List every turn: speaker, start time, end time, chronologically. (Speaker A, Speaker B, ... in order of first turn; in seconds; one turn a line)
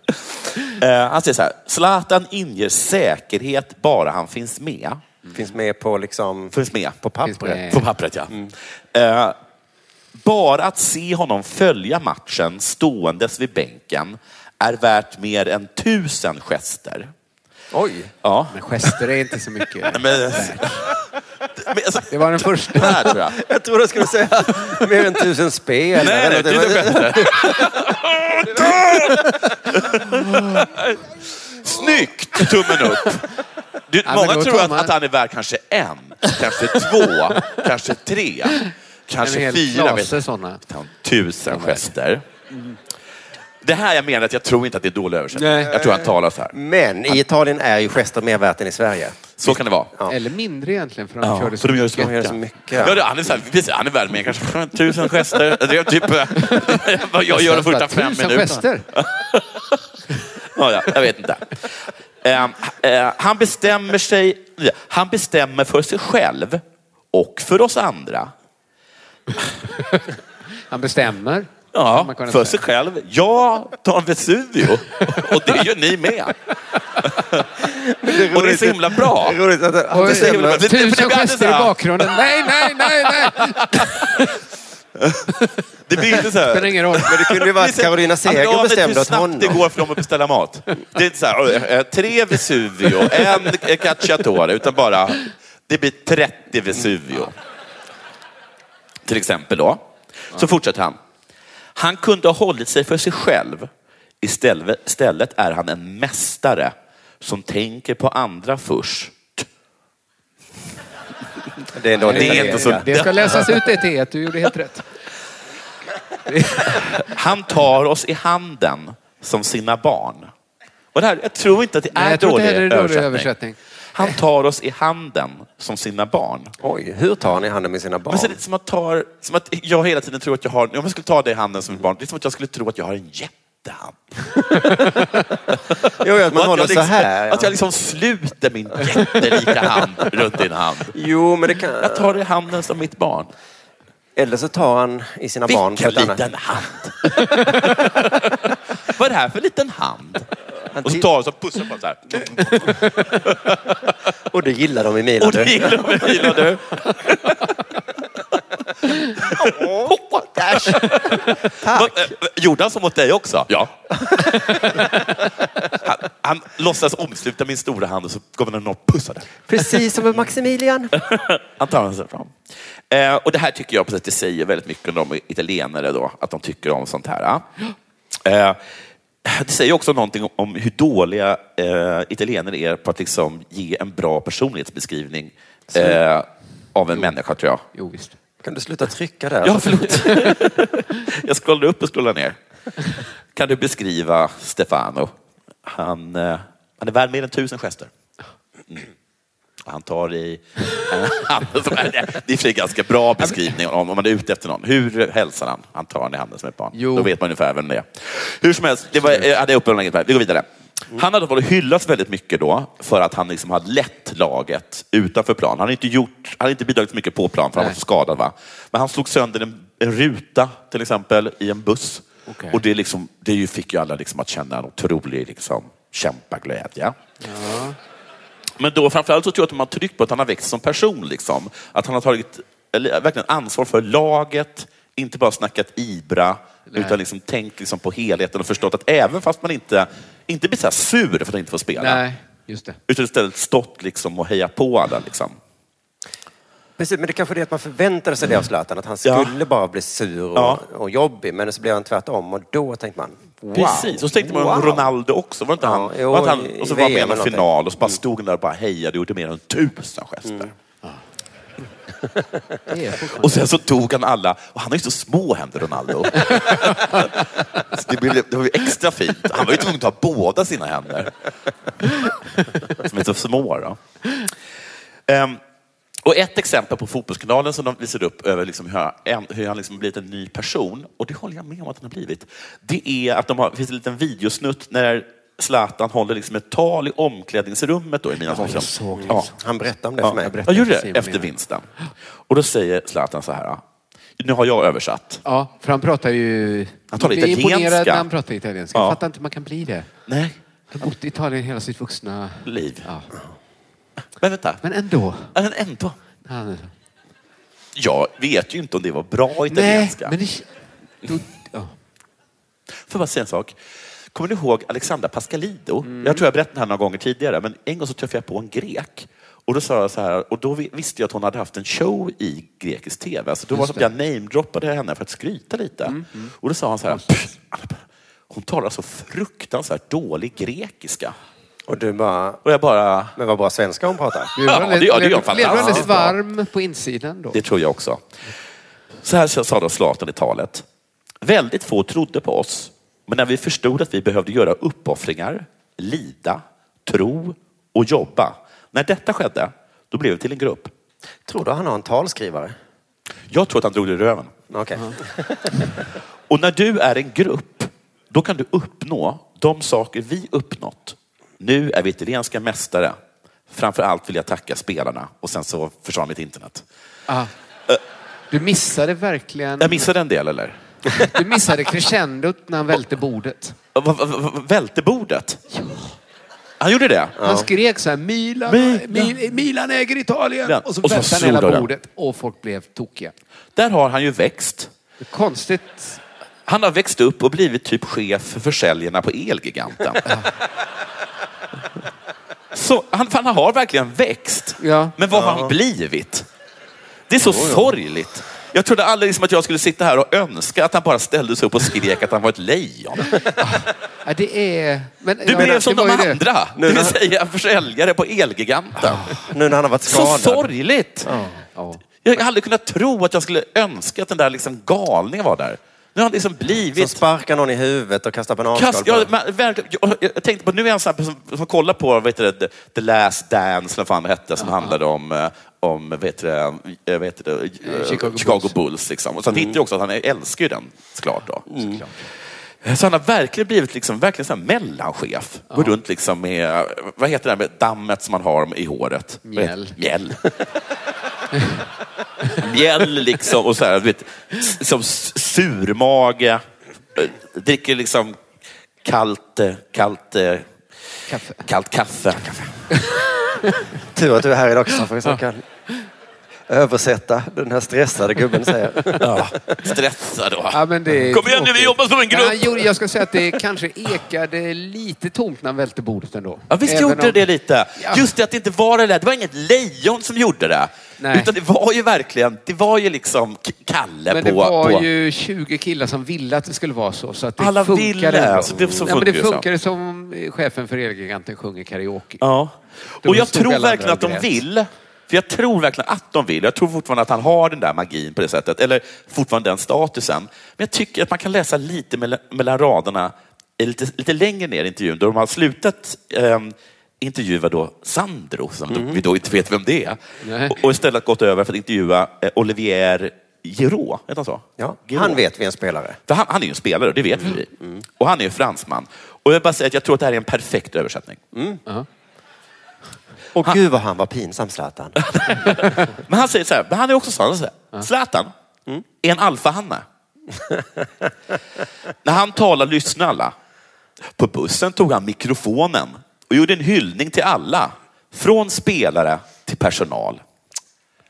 Speaker A: 0.1-5.0
Speaker B: 5.3-7.6
Speaker A: 6.5-7.0
Speaker C: 7.2-7.8
Speaker A: 7.7-8.4
Speaker A: 8.9-9.3
Speaker A: 10.2-17.1
Speaker B: 17.7-18.1
Speaker A: 18.2-19.0
Speaker C: 18.5-20.8
Speaker A: 19.9-20.7
Speaker A: 21.6-23.4
Speaker C: 22.1-23.1
Speaker B: 23.3-27.8
Speaker A: 26.0-33.3
Speaker C: 30.1-30.6
Speaker A: 33.9-42.2
Speaker C: 34.0-34.9
Speaker C: 39.2-40.6
Speaker C: 41.5-41.9
Speaker C: 42.5-42.8
Speaker A: 43.6-46.5
Speaker C: 45.3-45.8
Speaker B: 45.7-50.1
Speaker A: 49.4-49.9
Speaker C: 50.1-52.3
Speaker A: 51.2-59.8
Speaker B: 51.9-53.0
Speaker C: 56.3-58.9
Speaker A: 60.5-61.7
Speaker A: 62.2-68.3
Speaker C: 69.8-70.0
Speaker C: 70.7-72.6
Speaker A: 71.7-76.3
Speaker A: 77.0-77.5
Speaker B: 77.7-80.6
Speaker A: 78.2-79.4
Speaker C: 79.9-84.3
Speaker A: 80.0-82.1
Speaker A: 83.0-83.3
Speaker A: 85.0-85.3
Speaker A: 85.9-97.3
Speaker C: 86.1-87.2
Speaker B: 87.0-89.7
Speaker A: 99.0-101.0
Speaker A: 101.8-103.7
Speaker A: 104.2-109.5
Speaker B: 111.7-112.9
Speaker C: 112.0-114.8
Speaker A: 112.1-113.5
Speaker C: 116.3-117.0
Speaker A: 117.0-120.3
Speaker A: 120.9-123.3
Speaker C: 121.9-124.2
Speaker A: 123.9-126.5
Speaker B: 126.6-128.4
Speaker A: 128.1-134.0
Speaker B: 136.0-137.5
Speaker A: 136.3-140.9
Speaker B: 140.9-142.1
Speaker A: 141.8-143.3
Speaker B: 144.2-146.3
Speaker A: 145.5-148.4
Speaker A: 148.9-150.3
Speaker B: 150.7-151.1
Speaker A: 150.8-153.8
Speaker B: 154.3-156.3
Speaker A: 155.2-157.5
Speaker A: 159.0-164.9
Speaker B: 159.3-162.1
Speaker A: 165.7-169.4
Speaker B: 169.5-170.9
Speaker A: 170.9-172.4
Speaker A: 172.9-177.4
Speaker A: 178.2-178.6
Speaker A: 179.2-187.6
Speaker C: 187.7-188.2
Speaker B: 188.4-190.0
Speaker A: 189.4-192.3
Speaker C: 190.0-190.3
Speaker A: 193.3-195.1
Speaker A: 195.6-197.9
Speaker A: 199.6-226.9
Speaker C: 206.7-207.1
Speaker C: 222.3-222.6
Speaker C: 227.2-227.8
Speaker A: 228.6-242.0
Speaker C: 236.7-237.0
Speaker C: 241.8-242.8
Speaker A: 242.9-245.4
Speaker B: 246.8-254.9
Speaker A: 249.0-249.3
Speaker A: 250.3-250.6
Speaker A: 253.5-260.5
Speaker B: 255.6-258.0
Speaker C: 262.7-263.5
Speaker A: 263.2-271.1
Speaker C: 266.3-267.0
Speaker A: 272.7-273.8
Speaker A: 275.1-275.4
Speaker A: 276.0-289.3
Speaker C: 288.3-289.3
Speaker B: 289.0-290.3
Speaker C: 290.0-291.3
Speaker A: 290.4-291.7
Speaker A: 292.3-293.6
Speaker A: 294.2-295.2
Speaker C: 295.2-299.9
Speaker A: 296.9-298.1
Speaker A: 300.1-300.8
Speaker C: 300.7-303.1
Speaker A: 302.4-302.9
Speaker A: 304.2-304.6
Speaker C: 304.6-305.3
Speaker A: 305.3-305.9
Speaker C: 306.2-306.7
Speaker A: 307.7-310.1
Speaker C: 309.5-310.4
Speaker C: 311.1-311.7
Speaker A: 312.9-313.6
Speaker A: 314.1-331.1
Speaker C: 315.8-316.3
Speaker C: 323.5-323.9
Speaker C: 325.9-326.3
Speaker B: 331.7-332.4
Speaker A: 332.4-333.1
Speaker B: 333.1-334.3
Speaker C: 334.4-337.4
Speaker A: 334.4-336.1
Speaker B: 335.3-335.9
Speaker A: 337.3-338.0
Speaker A: 339.0-340.6
Speaker A: 341.2-350.7
Speaker B: 351.3-352.6
Speaker A: 353.3-354.3
Speaker B: 354.5-355.7
Speaker A: 356.3-363.0
Speaker A: 363.5-366.6
Speaker C: 368.3-369.9
Speaker A: 369.6-370.6
Speaker C: 371.0-373.6
Speaker A: 373.7-375.4
Speaker C: 375.5-375.9
Speaker A: 376.6-377.2
Speaker B: 377.2-377.5
Speaker C: 377.2-383.1
Speaker A: 378.4-379.2
Speaker A: 380.4-381.7
Speaker A: 383.6-384.7
Speaker C: 385.0-386.0
Speaker A: 386.5-390.1
Speaker A: 392.5-396.2
Speaker C: 394.6-394.9
Speaker B: 395.1-395.5
Speaker A: 397.1-403.3
Speaker B: 397.2-397.7
Speaker C: 403.4-406.2
Speaker A: 405.2-409.2
Speaker B: 406.6-407.0
Speaker C: 408.9-409.2
Speaker B: 409.3-410.5
Speaker A: 409.9-411.1
Speaker B: 411.0-411.4
Speaker C: 411.5-411.8
Speaker A: 412.0-417.0
Speaker B: 416.7-419.1
Speaker A: 418.5-431.4
Speaker C: 424.4-424.7
Speaker C: 427.6-428.5
Speaker B: 429.3-429.5
Speaker B: 431.5-431.8
Speaker C: 431.6-432.0
Speaker A: 432.6-440.2
Speaker C: 435.5-435.8
Speaker C: 439.2-439.8
Speaker C: 441.3-441.6
Speaker A: 442.4-446.4
Speaker A: 446.9-448.2
Speaker A: 448.8-450.5
Speaker C: 451.1-451.4
Speaker A: 451.4-452.4
Speaker C: 452.7-453.7
Speaker B: 453.9-455.4
Speaker B: 456.5-459.6
Speaker A: 459.0-462.7
Speaker C: 460.5-468.1
Speaker A: 466.5-474.9
Speaker C: 471.0-471.3
Speaker C: 474.1-482.2
Speaker A: 477.4-479.4
Speaker A: 482.2-505.2
Speaker C: 483.0-484.3
Speaker B: 498.7-499.0
Speaker C: 500.2-500.6
Speaker B: 504.6-506.0
Speaker A: 506.1-511.2
Speaker B: 511.3-511.6
Speaker B: 513.3-515.0
Speaker A: 515.0-518.3
Speaker A: 519.0-519.8
Speaker B: 520.4-520.6
Speaker A: 522.0-523.3
Speaker A: 524.1-530.2